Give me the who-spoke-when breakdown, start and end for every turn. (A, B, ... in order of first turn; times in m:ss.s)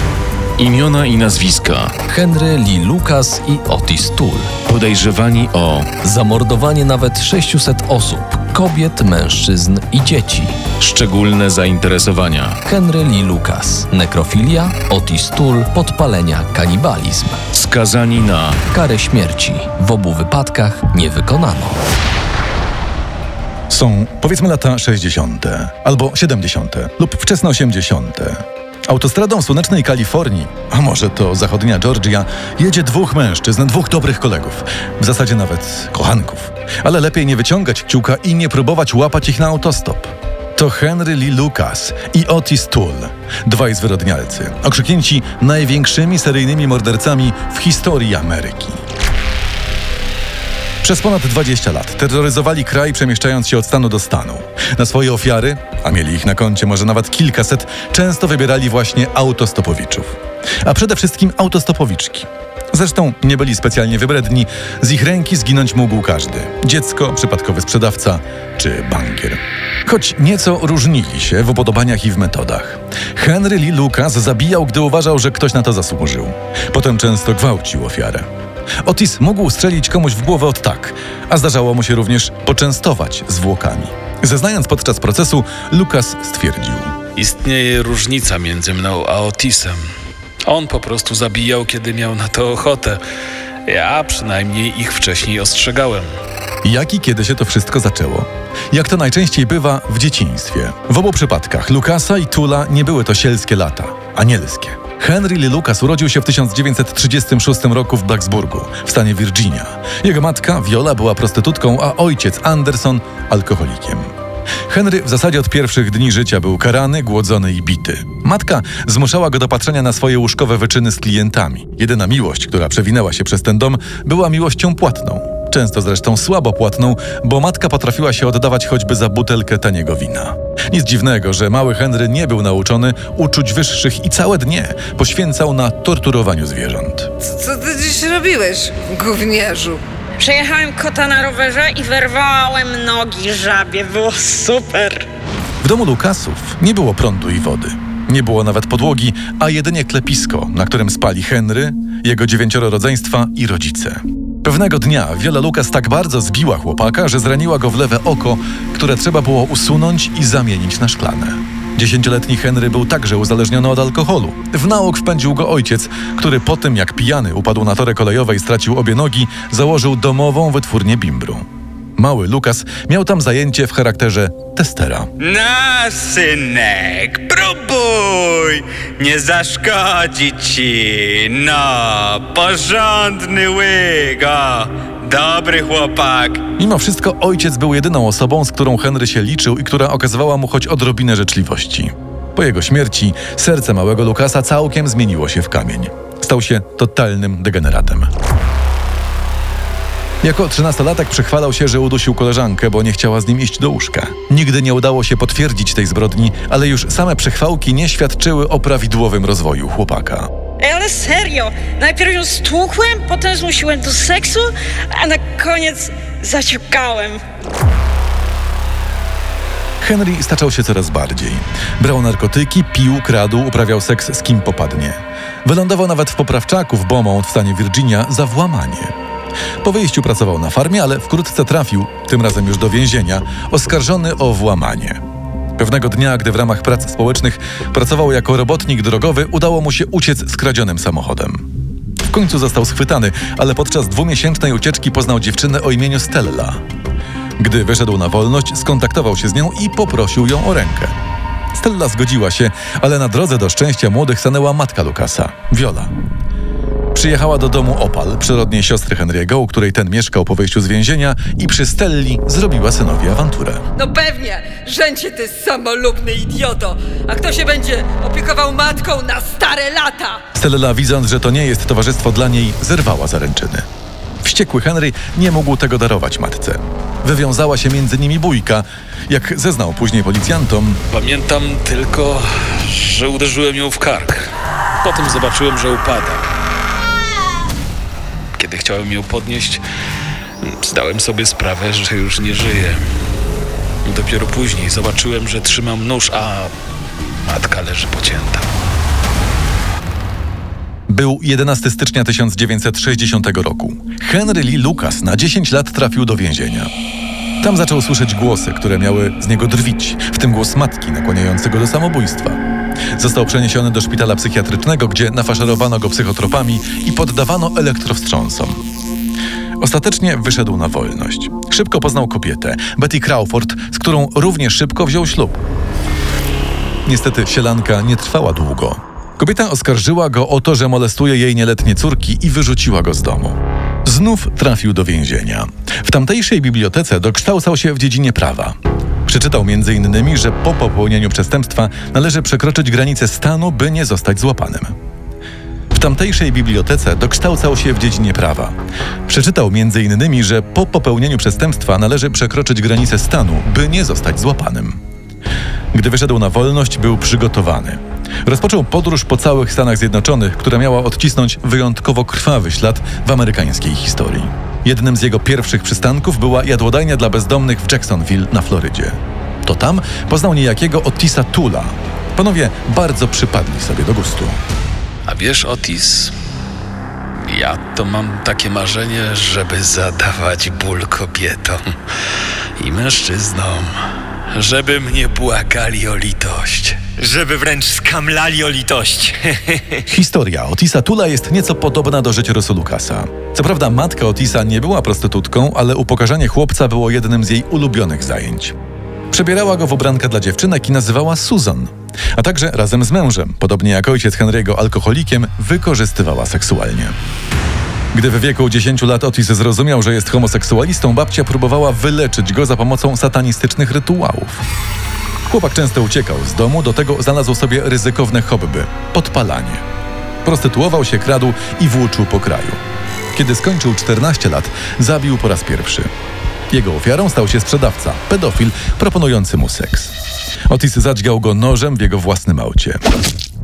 0:00.6-0:02.0 A
0:02.1-0:04.5 B
0:04.7-0:05.9 A
0:06.0-0:10.6 B
0:10.8-0:12.6 A
0:12.6-0:17.4 B
0:17.5-0:18.6 A
0:18.7-0:21.8 B
0:23.7-0:48.8 C
0:50.8-1:18.3 C
1:18.8-1:27.0 C
1:27.2-1:29.8 D
1:30.5-1:33.0 D
1:33.7-1:36.1 D
1:36.6-1:54.1 C
1:54.7-2:17.1 C
2:17.2-2:19.8 E
2:20.2-2:25.1 F
2:25.6-2:51.4 C
2:52.0-2:55.1 C
2:55.2-3:06.5 G
3:06.6-3:18.1 C
3:20.2-3:30.3 C
3:30.6-3:37.2 F
3:39.8-3:48.9 C
3:49.6-3:55.0 C
3:55.6-4:01.5 C
4:02.1-4:06.6 C
4:07.4-4:10.9 C
4:11.5-4:15.9 C
4:16.9-4:23.6 C
4:23.8-4:30.2 E
4:30.4-4:33.6 C
4:34.2-4:40.8 C
4:40.9-4:44.3 D
4:44.8-4:46.3 D
4:48.4-4:49.6 D
4:50.4-4:52.8 D
4:53.8-4:58.5 D
5:00.9-5:06.7 C
5:07.4-5:12.4 C
5:13.0-5:18.6 C
5:19.6-5:25.4 C
5:26.8-5:44.8 C
5:45.7-5:48.6 C
5:49.1-5:54.8 C
5:55.7-6:14.4 C
6:15.1-6:16.2 D
6:17.3-6:21.6 D
6:22.6-6:23.8 D
6:24.3-6:26.8 D
6:27.0-6:29.9 H
6:29.9-6:38.6 C
6:39.1-6:47.0 C
6:47.9-6:54.4 C
6:55.3-6:59.6 C
7:00.2-7:02.6 C
7:03.2-7:05.9 C
7:06.5-7:10.0 C
7:10.5-7:12.8 C